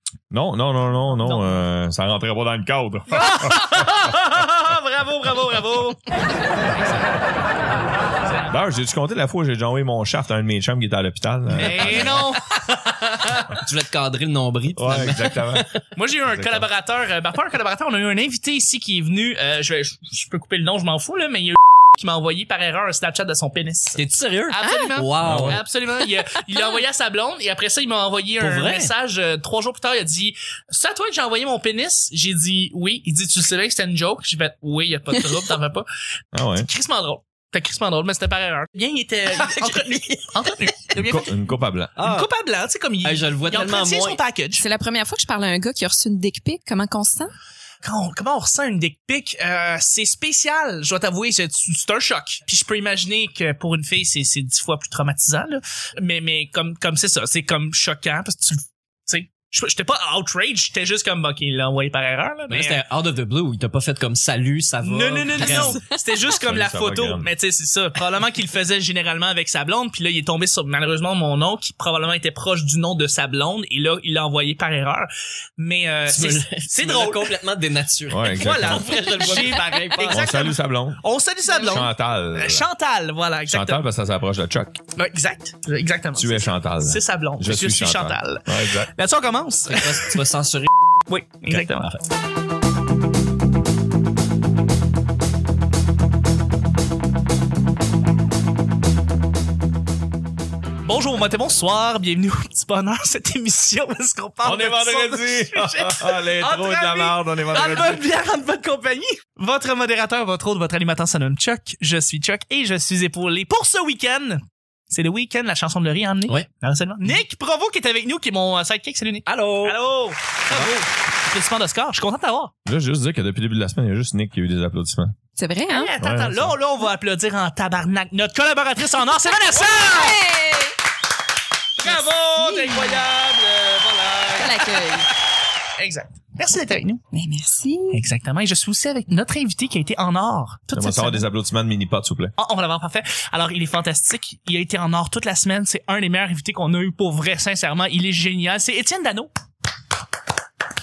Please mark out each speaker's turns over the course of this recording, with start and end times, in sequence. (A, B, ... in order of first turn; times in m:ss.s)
0:00.3-0:03.7 A
0:01.2-0:01.6 B
0:03.1-0:06.2 B
0:08.5-0:12.3 A
0:11.6-0:13.4 B
0:13.2-0:15.8 C
0:14.8-0:15.7 A
0:16.0-0:35.9 B
0:16.3-0:16.6 A
0:24.0-0:25.6 C
0:25.2-0:25.6 A
0:28.4-0:28.9 C
0:36.3-0:36.7 A
0:36.6-0:41.3 B
0:39.4-0:40.6 C
0:41.0-0:42.0 A
0:42.0-0:42.3 C
0:42.0-0:44.6 B
0:43.0-0:44.2 C
0:44.6-0:47.3 D
0:47.8-1:02.8 B
1:02.5-1:05.9 C
1:04.8-1:17.4 B
1:06.4-1:07.3 A
1:16.1-1:20.4 C
1:18.1-1:18.8 A
1:18.4-1:23.8 B
1:20.0-1:21.0 A
1:21.6-1:21.8 D
1:21.6-1:22.7 A
1:23.5-1:24.8 A
1:25.0-1:30.2 B
1:26.2-1:28.9 A
1:29.7-1:30.7 C
1:31.1-1:31.9 B
1:31.5-1:32.0 C
1:40.8-2:02.5 B
1:44.4-1:48.0 A
1:59.3-1:59.8 C
2:02.7-2:05.2 A
2:05.4-2:05.9 D
2:05.7-2:10.2 B
2:06.0-2:06.5 A
2:09.5-2:10.8 D
2:11.8-2:14.9 B
2:11.8-2:13.0 D
2:14.4-2:15.1 D
2:15.8-2:17.0 B
2:17.1-2:18.0 D
2:17.9-2:21.2 B
2:20.7-2:22.3 A
2:22.4-2:29.3 B